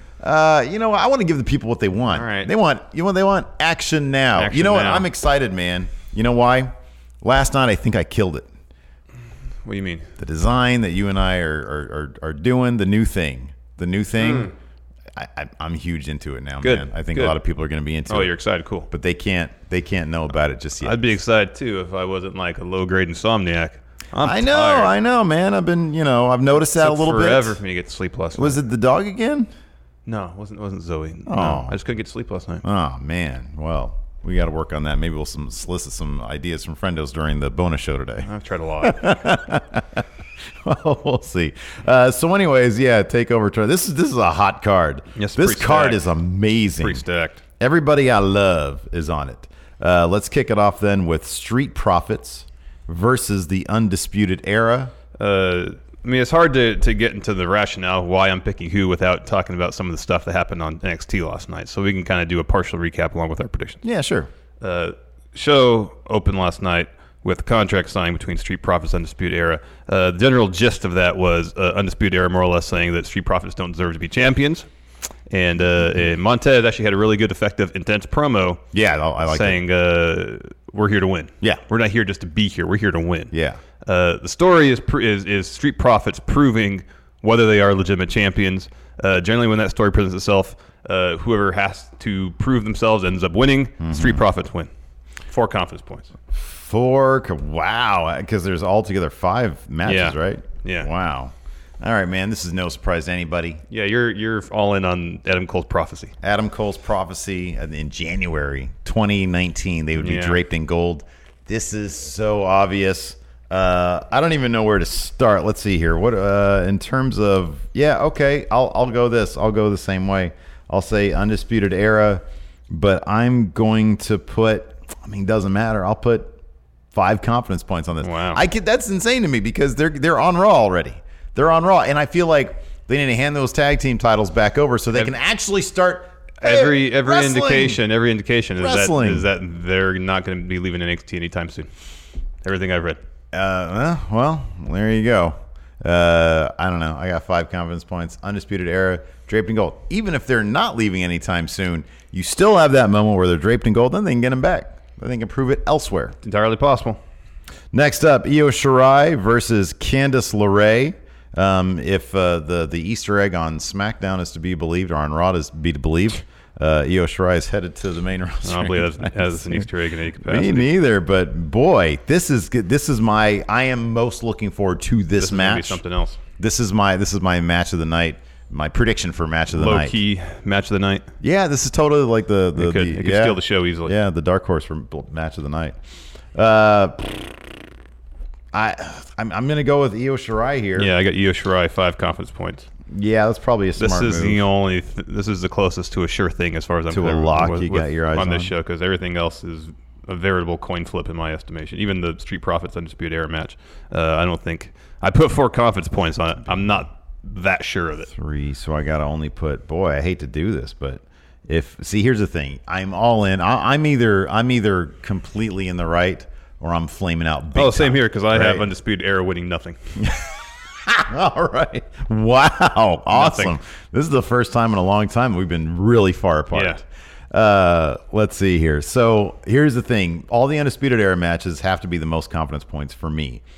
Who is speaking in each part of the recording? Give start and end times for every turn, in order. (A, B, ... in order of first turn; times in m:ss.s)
0:00.2-0:08.5 A
0:02.1-0:02.5 B
0:04.4-0:05.1 B
0:09.6-0:10.1 B
0:10.2-0:14.5 A
0:14.2-0:14.5 B
0:15.1-0:18.4 A
0:16.6-0:17.4 B
0:18.1-0:18.9 B
0:18.9-0:21.0 A
0:20.8-0:24.9 B
0:24.2-0:27.6 A
0:26.7-0:28.6 B
0:28.4-0:29.5 A
0:30.1-0:32.6 B
0:31.3-0:31.8 A
0:32.6-0:38.3 A
0:38.2-0:39.3 B
0:38.8-0:40.0 A
0:40.6-0:47.0 A
0:45.2-0:46.0 B
0:46.8-0:47.4 B
0:47.6-0:54.9 A
0:55.2-1:03.8 B
1:03.8-1:04.3 A
1:04.6-1:14.7 B
1:15.3-1:18.6 B
1:18.7-1:19.6 A
1:19.2-1:23.3 B
1:23.3-1:23.6 A
1:23.8-1:34.7 B
1:33.8-1:34.2 A
1:35.3-1:36.1 B
1:36.3-1:43.6 A
1:39.8-1:40.9 B
1:43.7-1:46.1 B
1:46.2-2:06.4 A
1:50.0-1:50.4 B
2:06.9-2:17.8 A
2:08.0-2:08.4 B
2:16.4-2:21.7 B
2:18.6-2:19.3 A
2:22.4-2:23.0 B
2:23.3-2:36.2 A
2:36.2-2:37.0 B
2:37.7-2:49.7 A
2:48.4-2:50.7 B
2:50.2-2:55.8 A
2:55.2-2:56.2 B
2:56.4-3:00.0 A
2:59.5-3:01.1 B
3:01.2-3:05.8 A
3:02.6-3:04.0 B
3:06.3-3:07.4 A
3:08.5-3:10.9 A
3:10.8-3:12.7 B
3:12.9-3:14.5 A
3:13.8-3:28.1 B
3:16.9-3:18.5 A
3:26.5-3:26.8 A
3:28.1-3:38.7 A
3:37.6-3:39.8 B
3:40.0-3:53.4 A
3:43.1-3:43.6 B
3:46.5-3:46.8 B